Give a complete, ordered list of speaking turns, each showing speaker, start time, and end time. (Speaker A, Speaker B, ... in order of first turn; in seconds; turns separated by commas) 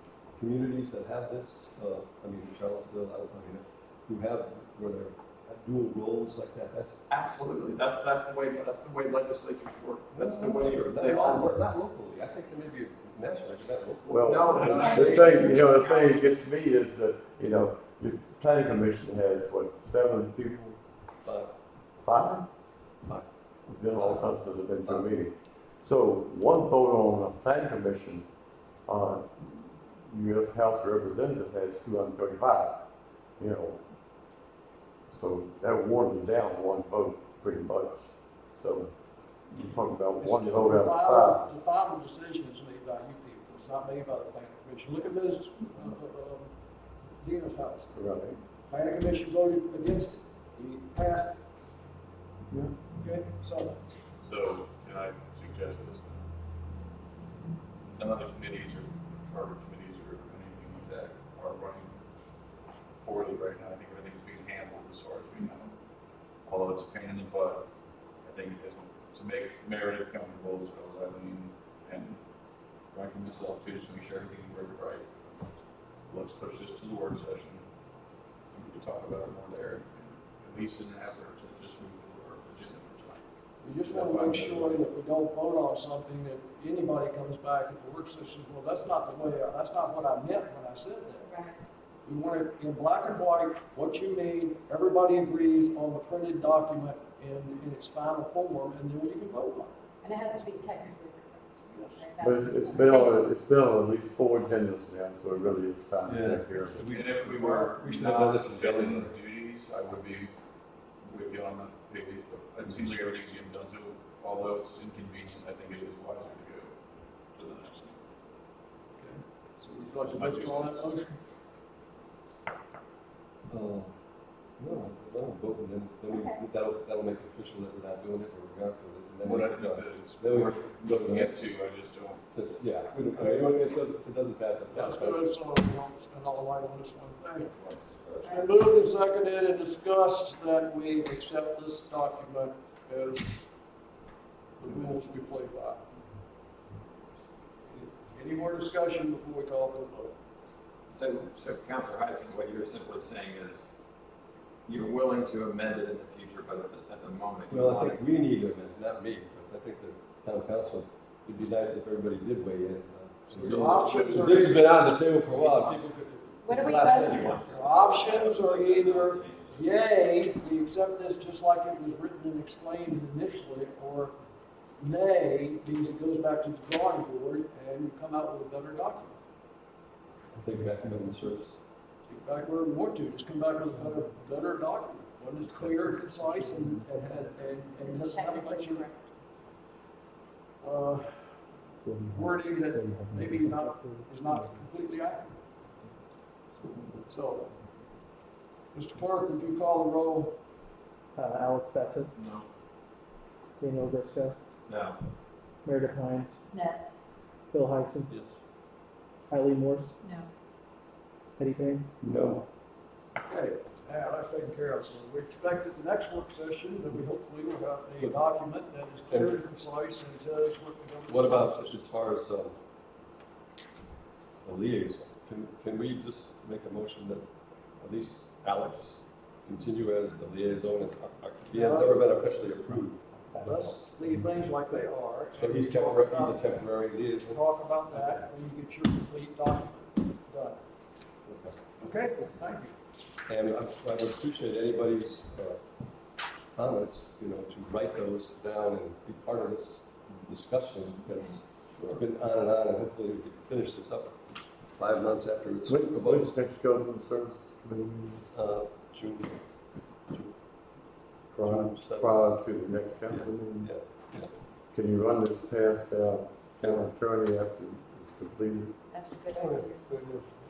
Speaker A: 0.3-7.0, Speaker B: 7.1-11.6, Speaker A: 10.1-15.6, Speaker C: 14.1-20.8, Speaker B: 14.2-16.4, Speaker A: 21.2-21.5, Speaker C: 22.0-22.5, Speaker C: 23.7-28.2, Speaker A: 24.0-24.3, Speaker C: 28.9-33.8, Speaker C: 35.1-38.9, Speaker C: 39.5-41.5, Speaker D: 40.2-46.5, Speaker D: 47.2-47.9, Speaker C: 47.9-48.4, Speaker D: 48.7-51.4, Speaker D: 52.9-53.8, Speaker E: 54.2-56.2, Speaker E: 58.0-62.0, Speaker E: 63.0-65.7, Speaker E: 66.5-67.7, Speaker E: 68.2-72.2, Speaker E: 72.9-75.5, Speaker E: 76.1-77.6, Speaker E: 78.5-83.2, Speaker D: 83.6-91.3, Speaker E: 83.9-84.8, Speaker F: 91.2-91.7, Speaker D: 92.0-99.8, Speaker F: 100.0-103.2, Speaker D: 101.7-102.1, Speaker C: 102.2-106.8, Speaker A: 106.1-109.1, Speaker E: 106.8-110.3, Speaker D: 107.4-107.7, Speaker E: 111.0-116.7, Speaker E: 117.3-118.0, Speaker D: 119.0-121.2, Speaker E: 120.0-120.9, Speaker A: 123.5-123.9, Speaker A: 124.6-131.6, Speaker F: 126.1-126.4, Speaker E: 129.2-132.2, Speaker A: 132.3-135.3, Speaker D: 134.7-137.5, Speaker B: 137.6-138.4, Speaker D: 138.3-143.4, Speaker D: 144.6-145.8, Speaker D: 147.6-150.1, Speaker B: 150.9-153.7, Speaker B: 154.7-158.0, Speaker A: 157.5-165.9, Speaker D: 163.3-164.6, Speaker E: 163.4-164.6, Speaker D: 165.3-166.4, Speaker F: 166.4-167.2, Speaker A: 166.4-167.3, Speaker B: 166.5-169.7, Speaker D: 167.1-174.2, Speaker D: 174.8-179.2, Speaker A: 180.3-181.6, Speaker D: 182.1-188.8, Speaker F: 187.8-189.1, Speaker D: 190.6-191.3, Speaker D: 192.1-195.4, Speaker G: 192.7-194.5, Speaker D: 197.1-197.5, Speaker D: 198.7-200.4, Speaker G: 201.1-202.1, Speaker B: 202.1-202.5, Speaker G: 203.6-204.4, Speaker B: 204.7-205.0, Speaker G: 205.6-206.3, Speaker F: 206.5-206.8, Speaker G: 207.5-208.1, Speaker G: 209.3-209.9, Speaker F: 210.0-210.3, Speaker G: 211.4-211.9, Speaker A: 212.0-212.5, Speaker D: 213.2-221.8, Speaker A: 219.1-219.4, Speaker A: 221.1-222.6, Speaker A: 224.4-233.1, Speaker D: 231.5-232.3, Speaker D: 233.4-236.5, Speaker A: 235.3-238.2, Speaker D: 237.3-240.6, Speaker A: 241.2-241.6, Speaker D: 241.8-242.7, Speaker A: 243.2-245.6, Speaker A: 246.5-256.3, Speaker F: 251.1-251.4, Speaker C: 255.7-258.3, Speaker A: 258.3-259.4, Speaker A: 260.1-260.4, Speaker C: 261.3-263.7, Speaker A: 261.4-262.3, Speaker A: 263.1-264.3, Speaker C: 264.7-268.8, Speaker A: 266.6-266.9, Speaker F: 268.9-269.9, Speaker A: 269.3-270.2